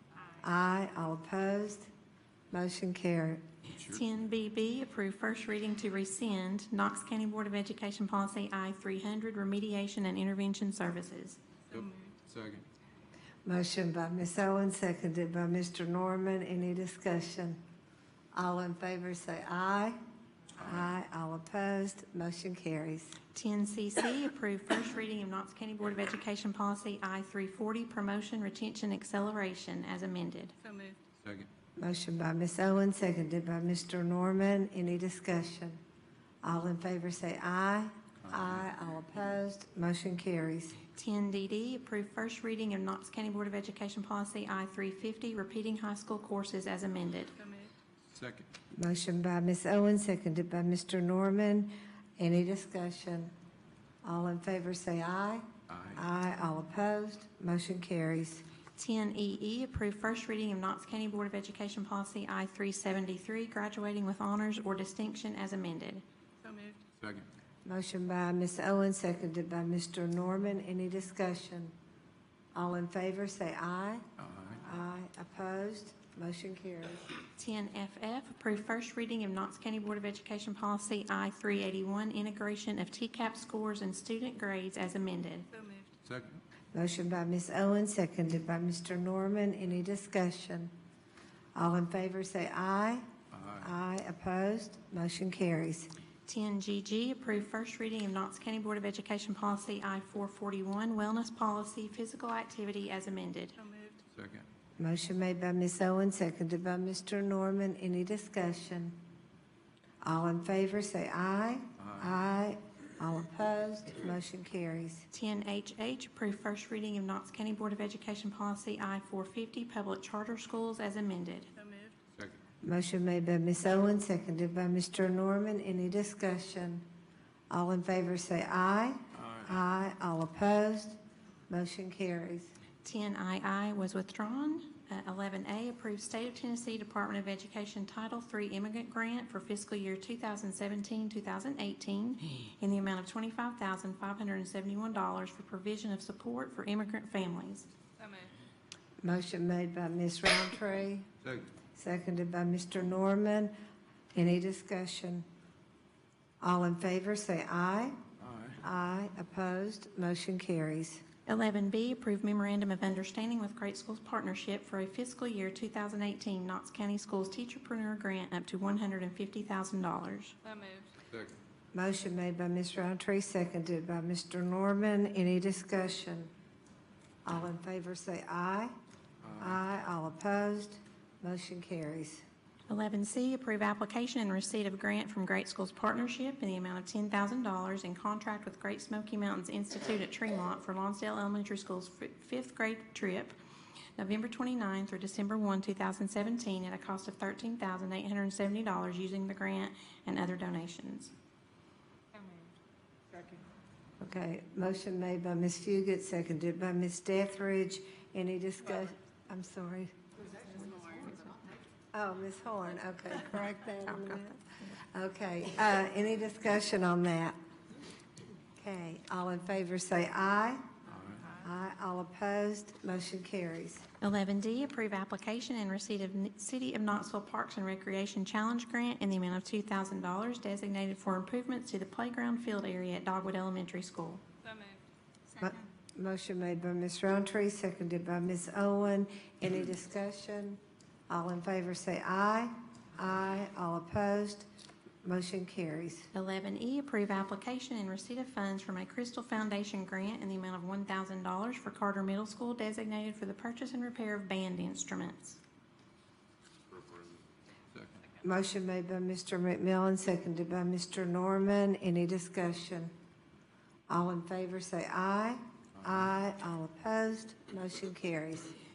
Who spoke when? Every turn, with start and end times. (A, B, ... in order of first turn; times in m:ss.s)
0:00.4-0:01.9 A
0:02.5-0:03.4 A
0:03.8-0:11.4 B
0:11.7-0:12.2 C
0:11.7-0:12.6 D
0:13.4-0:17.6 A
0:18.3-0:20.0 A
0:20.6-0:23.2 A
0:23.3-0:30.6 B
0:30.6-0:31.0 C
0:31.2-0:31.5 D
0:31.8-0:35.8 A
0:36.4-0:40.8 A
0:40.9-0:47.4 B
0:48.1-0:48.5 D
0:48.7-0:53.3 A
0:54.0-0:58.4 A
0:55.7-0:56.0 D
0:58.8-1:06.0 B
1:06.4-1:06.9 C
1:07.0-1:07.3 D
1:07.6-1:11.7 A
1:12.5-1:14.0 A
1:14.2-1:14.6 D
1:14.6-1:17.1 A
1:17.4-1:25.5 B
1:25.5-1:25.9 C
1:26.0-1:26.4 D
1:26.7-1:30.7 A
1:31.5-1:33.0 A
1:33.3-1:33.7 D
1:33.6-1:35.9 A
1:36.3-1:43.6 B
1:43.6-1:44.0 C
1:44.1-1:44.5 D
1:44.8-1:49.0 A
1:50.0-1:55.1 A
1:51.8-1:52.2 D
1:55.1-2:01.5 B
2:01.6-2:02.0 C
2:02.1-2:02.4 D
2:02.6-2:06.8 A
2:07.5-2:11.0 A
2:09.1-2:09.5 D
2:11.5-2:12.5 A
2:12.8-2:27.7 B
2:28.0-2:28.3 C
2:29.0-2:31.1 A
2:31.2-2:31.5 D
2:31.7-2:33.5 A
2:34.1-2:35.2 A
2:36.4-2:38.0 A
2:38.2-2:38.6 D
2:38.6-2:41.0 A
2:41.2-2:50.3 B
2:50.4-2:50.9 C
2:51.1-2:51.4 D
2:51.7-2:56.3 A
2:57.2-2:58.8 A
2:59.2-2:59.6 D
2:59.4-3:02.2 A
3:02.7-3:13.3 B
3:14.0-3:21.1 B
3:24.0-3:29.9 A
3:30.7-3:31.4 B
3:31.9-3:34.4 A
3:34.9-3:37.4 A
3:38.6-3:40.6 A
3:40.9-3:41.3 D
3:41.4-3:43.8 A
3:44.0-3:54.2 B
3:54.4-3:54.8 C
3:55.4-4:04.4 A
4:05.0-4:06.1 A
4:06.1-4:15.4 B
4:16.7-4:17.2 D
4:17.7-4:18.0 D
4:18.2-4:22.9 A
4:23.9-4:28.5 A